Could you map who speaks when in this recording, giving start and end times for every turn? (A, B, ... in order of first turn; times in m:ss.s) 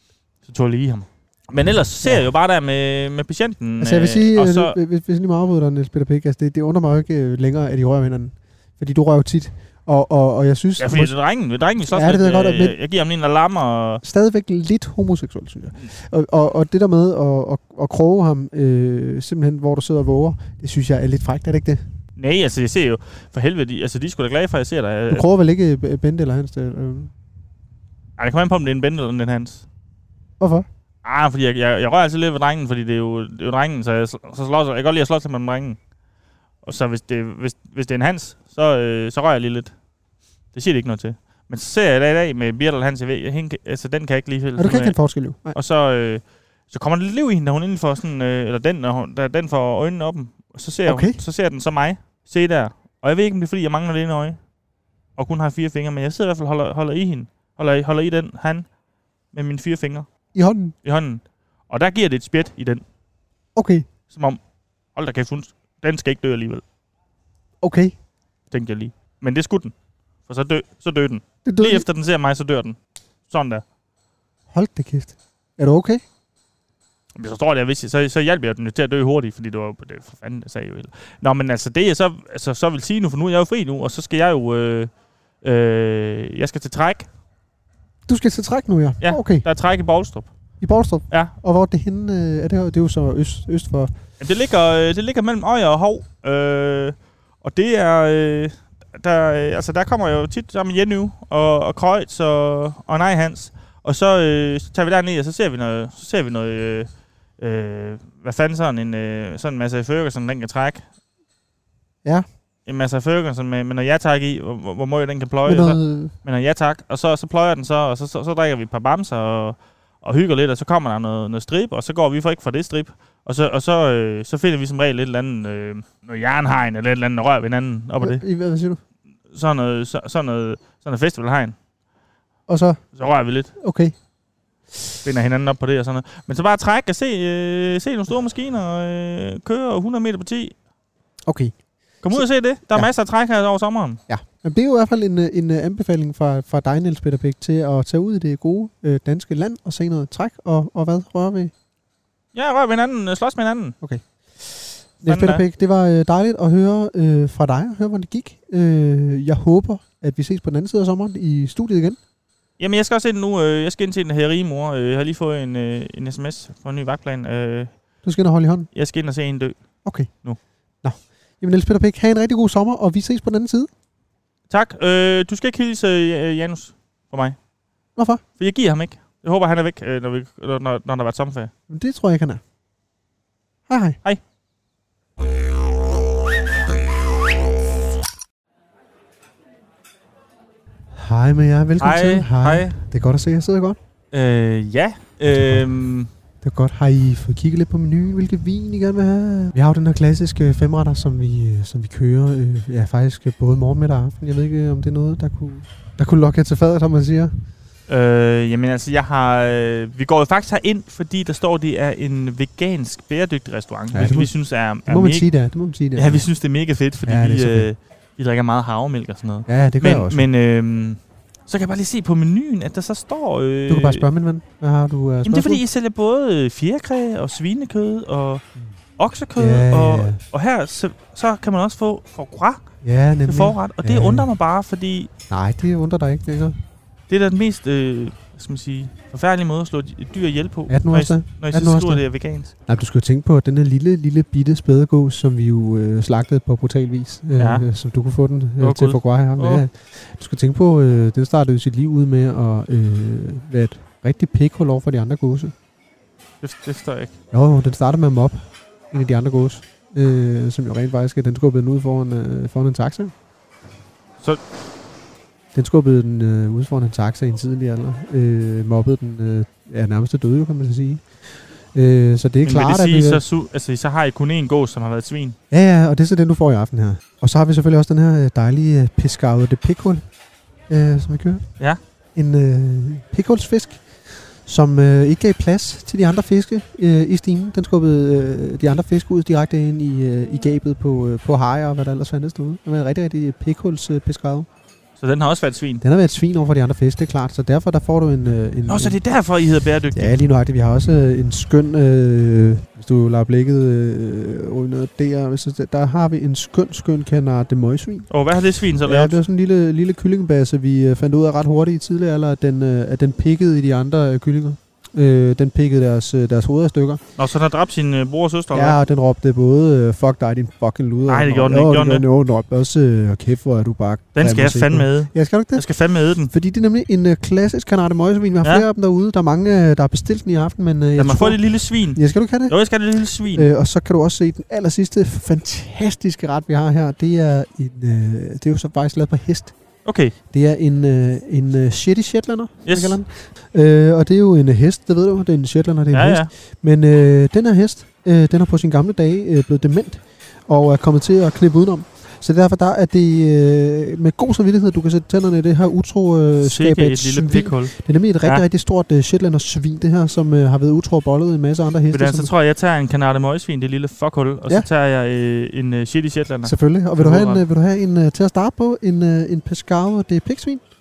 0:00.4-0:04.8 A
0:02.0-0:02.3 B
0:03.8-0:11.2 B
0:10.8-0:14.0 A
0:11.9-0:12.8 B
0:14.0-0:21.8 B
0:22.2-0:25.2 A
0:25.1-0:27.1 B
0:28.2-0:29.6 A
0:30.4-0:30.7 B
0:31.0-0:35.8 A
0:36.6-0:39.8 A
0:40.5-0:54.4 A
0:44.6-0:45.6 B
0:50.8-0:51.2 B
0:55.2-0:58.7 A
0:59.3-1:02.8 A
1:00.3-1:00.7 B
1:03.5-1:03.8 B
1:04.1-1:06.6 A
1:07.6-1:07.9 B
1:08.5-1:13.6 A
1:11.4-1:11.8 B
1:14.5-1:16.0 B
1:17.2-1:27.1 A
1:28.1-1:29.4 B
1:29.0-1:31.3 A
1:30.6-1:33.9 B
1:34.2-1:50.9 A
1:52.6-2:08.2 A
1:55.4-1:56.1 B
2:08.0-2:08.8 B
2:09.3-2:11.6 A
2:12.5-2:13.9 B
2:12.9-2:13.5 A
2:15.0-2:20.6 A
2:21.2-2:22.9 B
2:22.0-2:24.0 A
2:24.1-2:31.5 B
2:32.3-2:33.8 A
2:33.8-2:42.0 B
2:35.0-2:35.4 A
2:42.6-2:47.8 A
2:48.0-2:48.7 B
2:48.7-2:50.4 A
2:49.8-2:50.1 B
2:50.8-2:53.7 B
2:54.5-2:57.4 A
2:58.0-2:58.2 B
2:58.4-3:01.5 A
3:01.7-3:02.4 B
3:03.7-3:04.0 B
3:10.9-3:13.8 B
3:11.8-3:12.8 A
3:14.1-3:16.1 A
3:15.3-3:15.6 B
3:16.4-3:27.3 B
3:27.9-3:35.3 A
3:33.9-3:36.3 B
3:35.9-3:44.0 A
3:37.0-3:37.7 B
3:39.5-3:40.2 B
3:43.7-3:45.6 B
3:45.2-3:48.4 A
3:49.0-3:52.6 A
3:49.4-3:50.2 B
3:52.8-3:54.3 B
3:53.3-3:55.1 A
3:55.3-3:56.6 B
3:57.1-4:02.5 A
4:00.7-4:15.5 B
4:07.4-4:07.6 A
4:08.6-4:09.6 A
4:16.4-4:17.1 A
4:17.3-4:23.1 B
4:25.5-4:33.2 B
4:32.4-4:35.4 A
4:35.5-4:40.0 B
4:40.7-4:41.6 B
4:42.1-4:54.5 B
4:55.0-4:55.8 A
4:55.8-4:59.0 B
4:58.7-5:00.1 A
4:59.9-5:08.1 B
5:08.1-5:09.2 A
5:08.8-5:17.0 B
5:17.2-5:18.8 A
5:18.5-5:25.7 B
5:21.1-5:22.0 A
5:24.1-5:26.3 A
5:26.3-5:32.6 B
5:31.0-5:33.5 A
5:33.2-5:39.6 B
5:39.8-5:40.1 A
5:40.3-6:02.3 B
5:42.6-5:43.0 A
5:45.9-5:46.3 A
5:56.4-5:58.4 A
6:01.9-6:07.4 A
6:06.4-6:10.6 B